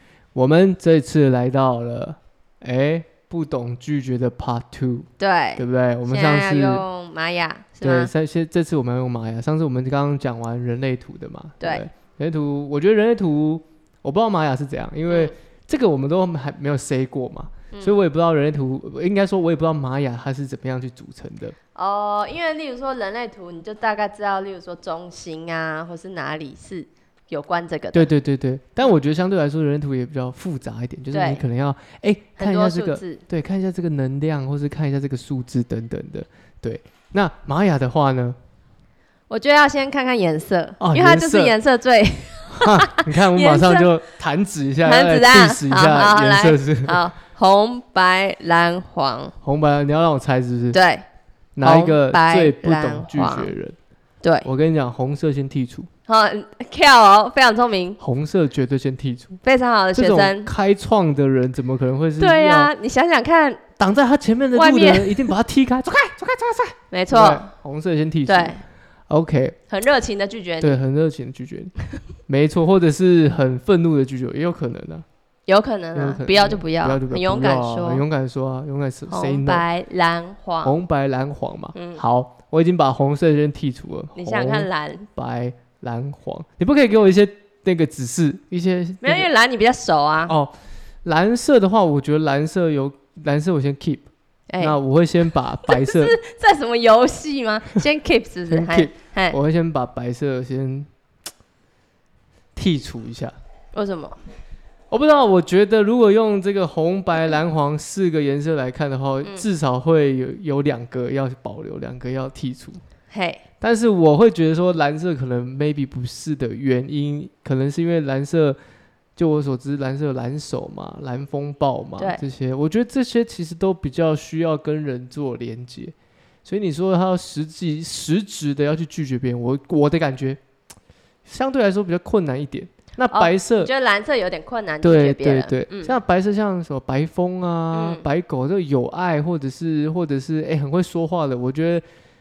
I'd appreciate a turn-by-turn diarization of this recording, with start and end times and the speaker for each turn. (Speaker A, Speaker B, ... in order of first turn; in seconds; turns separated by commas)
Speaker A: 0.3-6.8, Speaker B: 5.2-8.1, Speaker A: 7.8-21.6, Speaker B: 21.7-28.1, Speaker A: 27.9-38.4, Speaker B: 31.1-31.4, Speaker B: 32.4-33.2, Speaker B: 39.3-43.9, Speaker A: 40.8-41.5, Speaker A: 42.5-47.0, Speaker B: 44.8-49.3, Speaker A: 49.4-50.8, Speaker B: 50.7-51.0, Speaker A: 51.5-53.8, Speaker B: 51.6-53.5, Speaker B: 54.2-54.5, Speaker A: 54.4-55.9, Speaker B: 56.1-58.0, Speaker A: 58.0-59.4, Speaker B: 59.4-60.5, Speaker A: 59.9-62.7, Speaker B: 62.2-63.6, Speaker A: 63.8-69.5, Speaker B: 64.5-65.3, Speaker B: 66.9-67.5, Speaker B: 68.3-68.6, Speaker B: 69.7-70.8, Speaker A: 70.6-71.7, Speaker A: 72.3-75.0, Speaker B: 75.5-78.0, Speaker A: 75.9-79.6, Speaker B: 79.1-80.7, Speaker A: 80.6-89.3, Speaker B: 81.7-82.0, Speaker B: 84.2-85.1, Speaker B: 89.0-90.3, Speaker A: 90.3-90.5, Speaker A: 91.0-94.1, Speaker B: 94.5-94.8, Speaker A: 94.6-96.2, Speaker B: 95.7-99.4, Speaker A: 98.5-100.9, Speaker A: 102.5-103.3, Speaker B: 103.7-104.2, Speaker A: 104.9-112.8, Speaker B: 113.1-113.4, Speaker A: 113.6-118.6, Speaker A: 119.2-130.4, Speaker B: 122.0-122.2, Speaker A: 131.2-133.7, Speaker B: 133.1-136.0, Speaker A: 134.8-141.8, Speaker B: 137.7-138.1